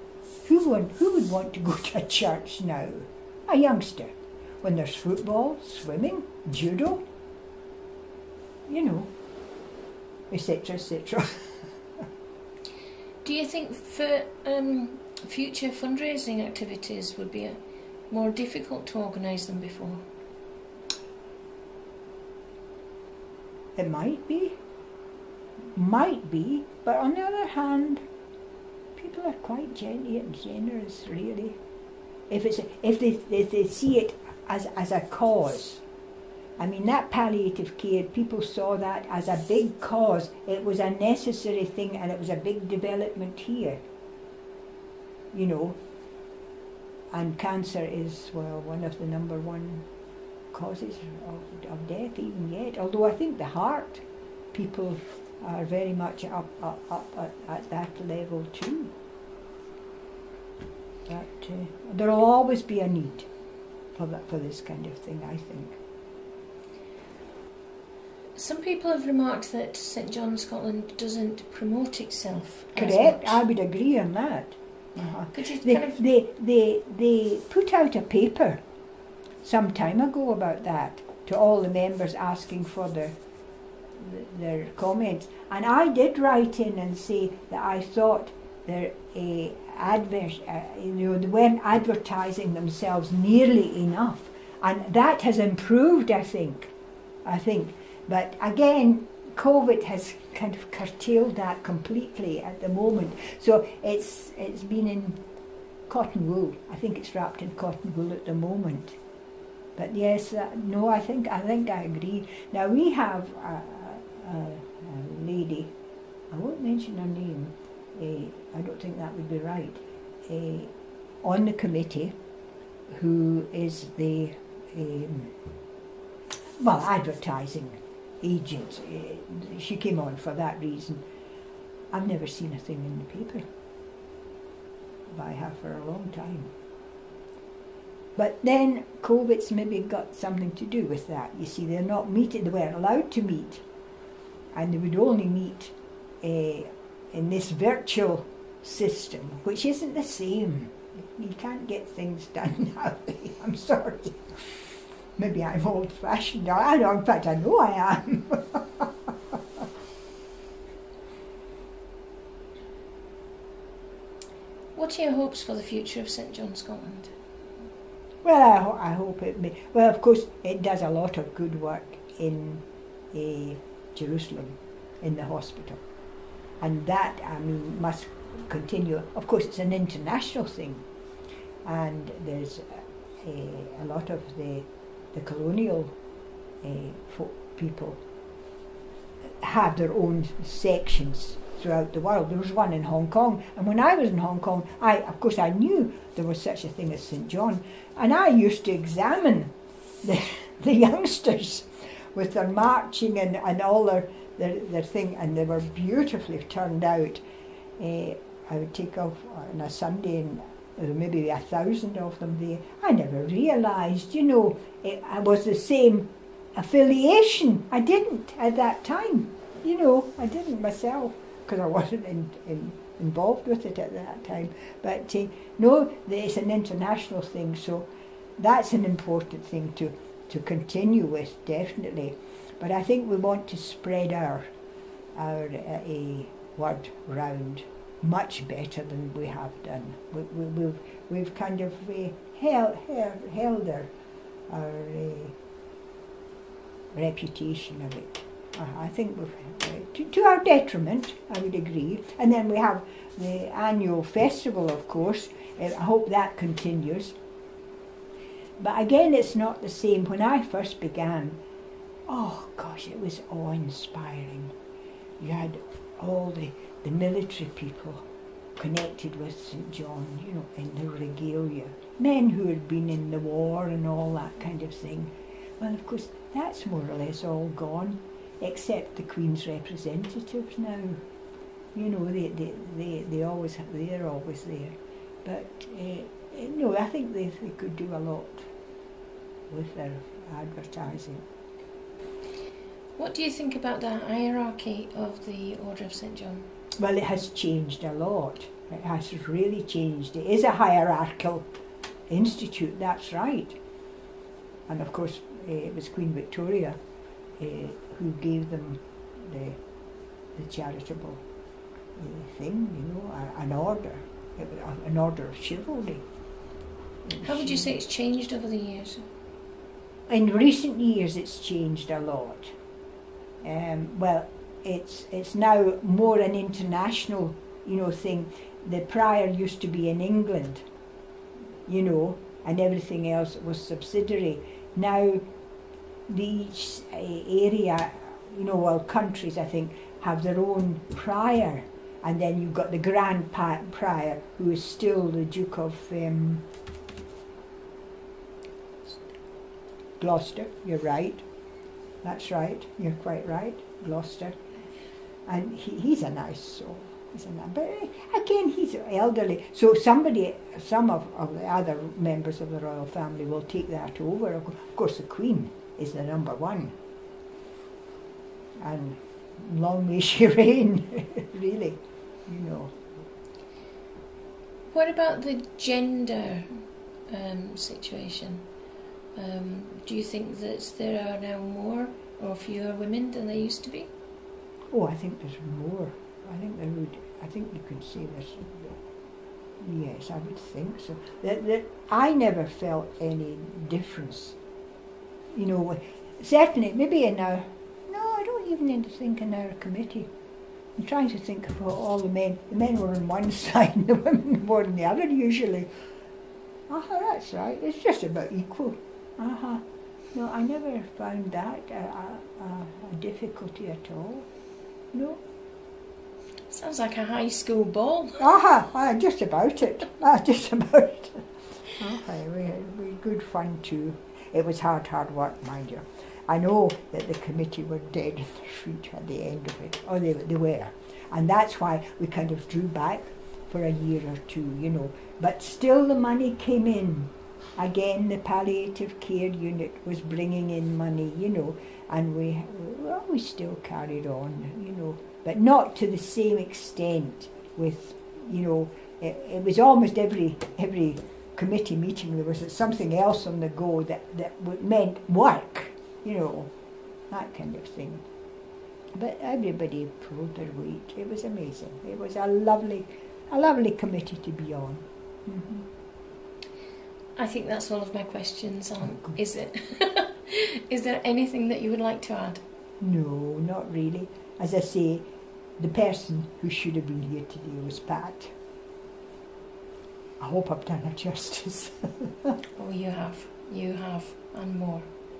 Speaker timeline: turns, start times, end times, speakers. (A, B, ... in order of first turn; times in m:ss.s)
0:00.4-0:07.0 A
0:08.7-0:09.1 A
0:10.3-0:11.6 A
0:13.2-0:17.6 B
0:18.1-0:20.0 B
0:23.8-0:24.6 A
0:25.7-0:28.0 A
0:29.0-0:31.6 A
0:32.3-0:35.8 A
0:36.6-0:43.8 A
0:45.3-0:45.8 A
0:47.1-0:49.8 A
0:50.5-0:58.9 A
1:01.1-1:03.3 A
1:04.0-1:05.8 A
1:08.3-1:13.4 B
1:12.7-1:18.6 A
1:15.3-1:16.0 B
1:19.4-1:23.2 A
1:24.0-1:36.7 A
1:37.2-1:45.2 A
1:45.9-1:49.0 A
1:49.8-1:55.7 A
1:56.3-2:02.1 A
2:02.9-2:05.3 A
2:06.6-2:11.0 A
2:11.9-2:13.4 A
2:15.1-2:16.5 A
2:18.2-2:23.6 A
2:24.5-2:34.6 A
2:35.2-2:39.6 A
2:44.7-2:47.1 B
2:48.2-2:55.8 A
2:56.6-3:00.8 A
3:01.6-3:05.9 A
3:06.6-3:08.0 A
3:09.4-3:19.5 A
3:20.0-3:27.2 A
3:27.8-3:47.9 A
3:48.4-3:54.5 A
3:55.1-4:03.9 A
4:04.5-4:05.3 A
4:06.9-4:17.2 A
4:18.6-4:21.4 A
4:22.1-4:24.5 A
4:25.2-4:28.0 A
4:28.6-4:41.0 A
4:41.7-4:48.5 A
4:49.5-4:51.2 A
4:53.0-4:56.4 B
4:56.8-5:01.5 A
5:02.1-5:03.6 A
5:04.7-5:06.8 A
5:07.4-5:09.6 A
5:10.3-5:11.2 A
5:12.0-5:16.0 A
5:17.0-5:17.7 A
5:17.2-5:19.1 B
5:20.1-5:22.5 A
5:23.4-5:30.6 A
5:31.7-5:35.2 A
5:36.1-5:46.4 A
5:50.0-5:51.2 A
5:52.0-5:54.4 A
5:55.2-6:06.7 A
6:08.6-6:12.8 A
6:14.7-6:18.4 B
6:19.1-6:23.9 B
6:24.7-6:28.8 A
6:29.6-6:34.4 A
6:35.3-6:40.1 A
6:40.8-6:45.7 A
6:46.7-6:49.6 A
6:50.1-6:54.3 A
6:54.9-6:55.2 A
6:56.5-6:58.2 B
6:58.2-7:36.5 A
7:37.1-7:38.0 A
7:38.9-7:45.6 A
7:47.2-7:52.4 B
7:52.8-7:55.0 A
7:55.6-7:58.3 A
8:00.2-8:02.3 A
8:02.6-8:04.9 B